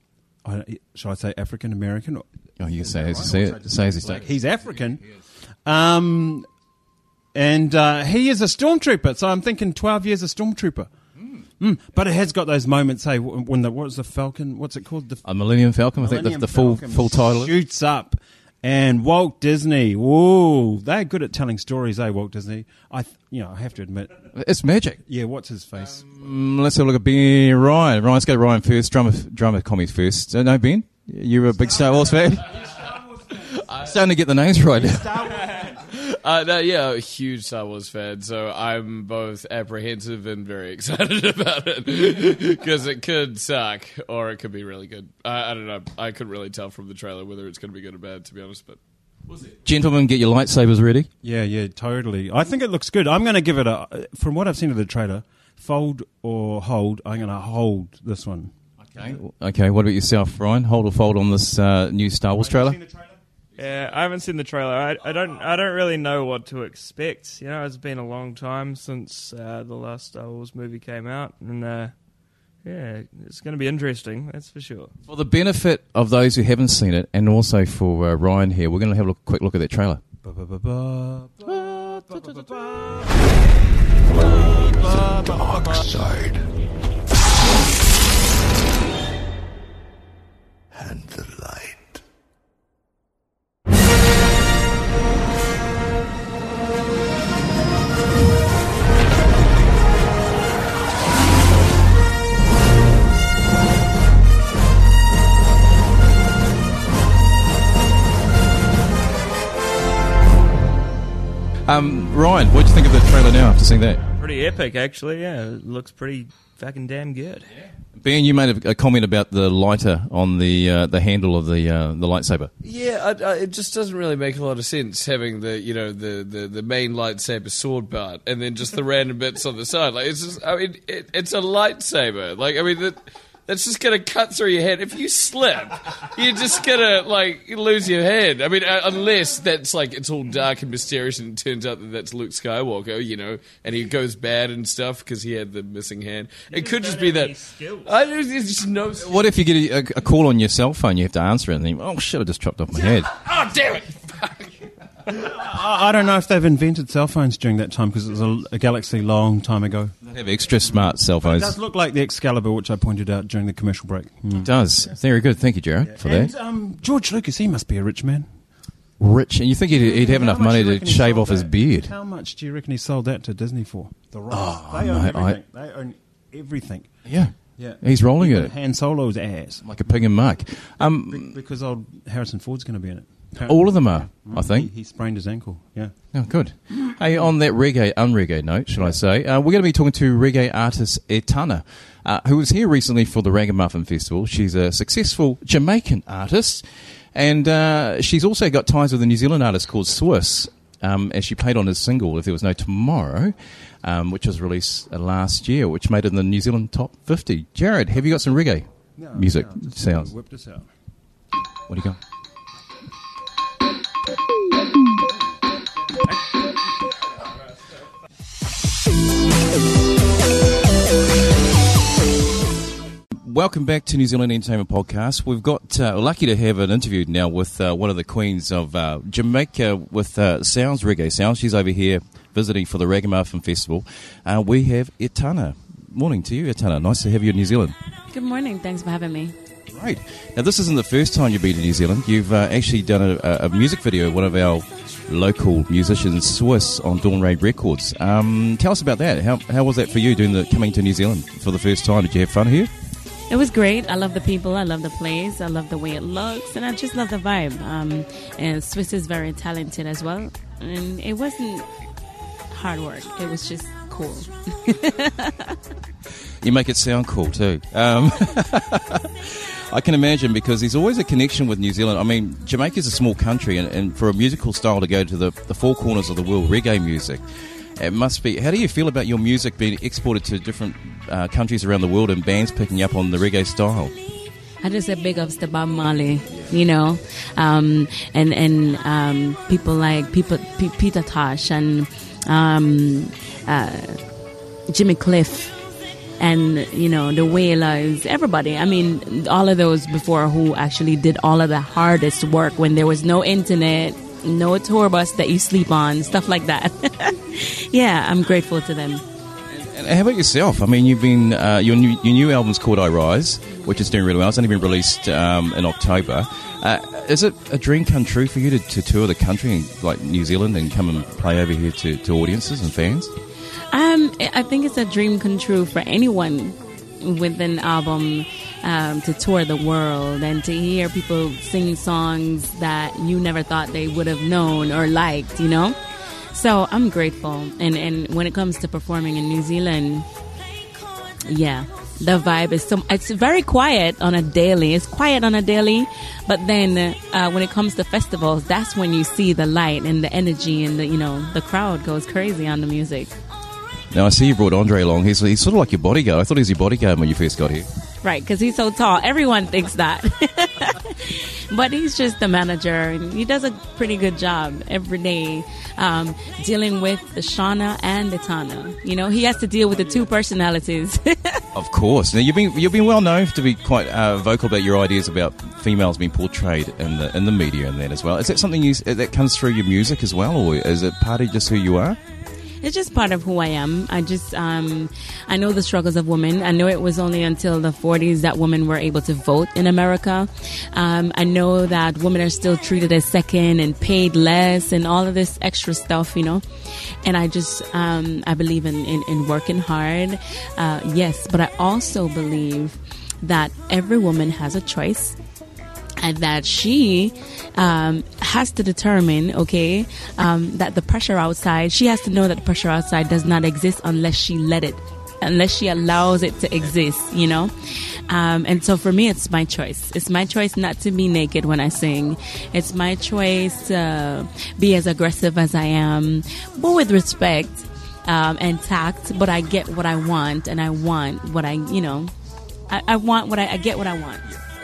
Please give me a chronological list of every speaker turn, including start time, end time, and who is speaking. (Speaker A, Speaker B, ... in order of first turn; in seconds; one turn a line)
Speaker A: 0.4-2.3
Speaker B: 2.6-4.3
Speaker A: 2.8-6.5
Speaker A: 7.3-10.9
Speaker A: 11.6-15.2
Speaker B: 15.2-17.5
Speaker A: 16.0-24.2
Speaker B: 24.4-25.0
Speaker A: 25.1-26.1
Speaker B: 26.0-32.6
Speaker A: 31.7-33.5
Speaker B: 33.4-35.4
Speaker C: 33.7-34.0
Speaker A: 34.7-35.9
Speaker C: 35.8-48.8
Speaker B: 49.4-51.1
Speaker A: 51.2-59.2
Speaker B: 58.9-62.8
Speaker A: 62.4-63.2
Speaker D: 63.6-71.9
Speaker D: 72.6-74.9
Speaker B: 75.1-80.0
Speaker A: 80.2-83.1
Speaker B: 81.5-82.5
Speaker E: 84.2-86.5
Speaker A: 84.3-85.9
Speaker E: 90.7-92.0
Speaker B: 111.7-114.0
Speaker D: 114.2-117.5
Speaker B: 117.9-122.5
Speaker C: 122.6-149.2
Speaker D: 146.5-147.9
Speaker B: 149.0-153.2
Speaker C: 153.1-154.6
Speaker A: 155.1-159.9
Speaker B: 160.1-161.6
Speaker A: 161.2-164.5
Speaker B: 164.4-166.3
Speaker A: 165.8-168.4
Speaker B: 169.0-171.9
Speaker A: 169.7-179.7
Speaker B: 174.3-175.4
Speaker B: 177.1-178.6
Speaker B: 179.6-181.3
Speaker A: 181.1-187.3
Speaker B: 183.4-184.7
Speaker B: 186.1-210.1
Speaker A: 209.0-210.7
Speaker B: 211.7-212.0
Speaker B: 223.2-237.8
Speaker F: 238.1-239.3
Speaker B: 239.7-252.7
Speaker F: 253.3-261.7
Speaker F: 262.5-265.6
Speaker B: 266.4-277.2
Speaker B: 277.8-283.9
Speaker F: 284.6-294.0
Speaker F: 294.7-295.6
Speaker F: 296.2-309.0
Speaker B: 309.5-323.1
Speaker F: 323.7-335.8
Speaker F: 336.3-340.1
Speaker F: 341.3-353.1
Speaker B: 353.9-357.7
Speaker F: 358.0-371.4
Speaker B: 371.6-382.0
Speaker F: 382.6-396.4
Speaker F: 397.0-405.2
Speaker F: 406.0-417.5
Speaker F: 418.1-432.1
Speaker F: 432.7-434.3